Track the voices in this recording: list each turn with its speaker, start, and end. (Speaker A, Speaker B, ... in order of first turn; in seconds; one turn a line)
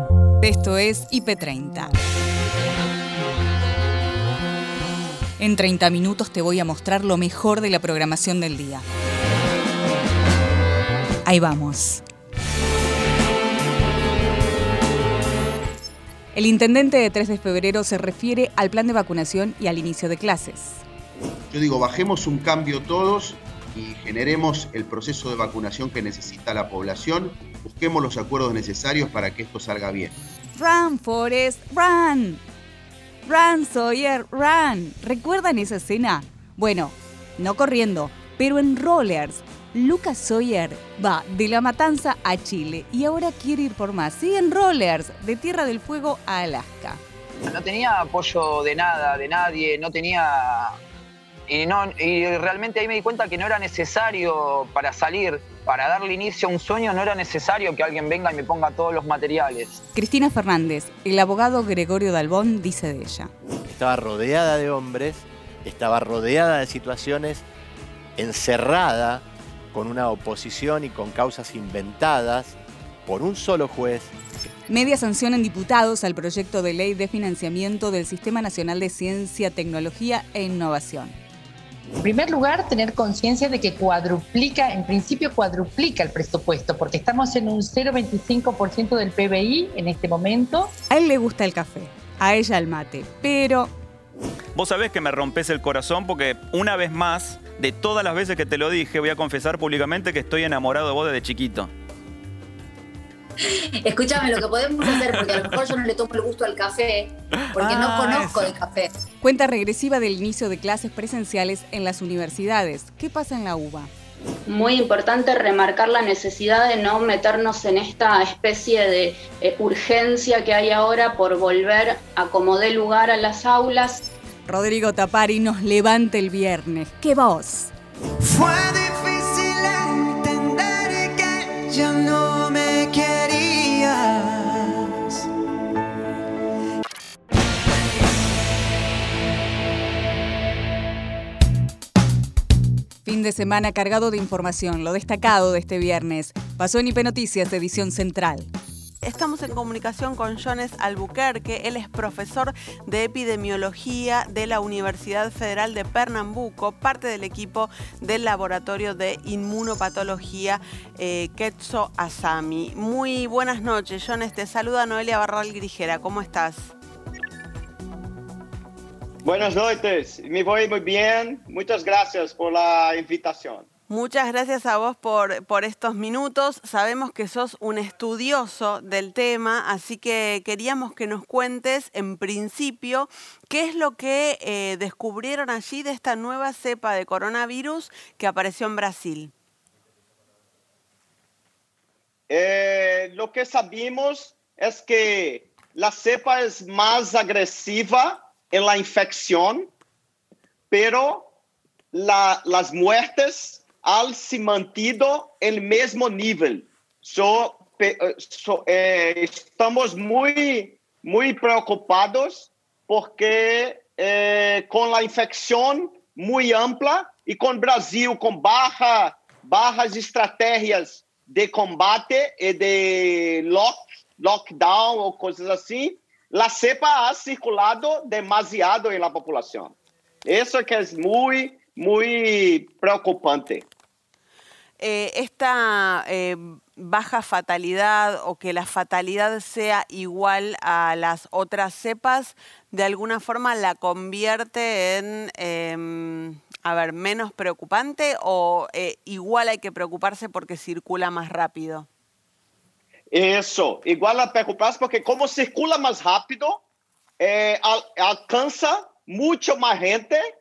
Speaker A: 0.4-1.9
Speaker A: 5.4-8.8
Speaker A: 11.3-12.0
Speaker A: 16.3-20.8
Speaker B: 21.5-30.2
Speaker A: 30.6-32.4
Speaker A: 33.3-47.0
Speaker C: 47.5-50.8
Speaker C: 51.5-59.8
Speaker A: 60.0-63.3
Speaker D: 63.7-67.5
Speaker D: 68.2-74.1
Speaker A: 74.7-81.2
Speaker E: 82.0-90.7
Speaker A: 90.9-93.7
Speaker F: 94.5-101.7
Speaker G: 103.4-108.9
Speaker F: 107.5-108.5
Speaker A: 109.2-113.9
Speaker H: 114.5-124.1
Speaker A: 124.5-127.7
Speaker I: 128.2-135.2
Speaker A: 143.1-148.5
Speaker J: 149.0-166.7
Speaker K: 169.2-173.7
Speaker J: 173.9-189.3
Speaker K: 192.3-199.7
Speaker K: 200.7-201.3
Speaker K: 201.9-229.8
Speaker K: 230.3-233.7
Speaker J: 234.8-251.9
Speaker K: 253.1-256.6
Speaker K: 257.2-260.2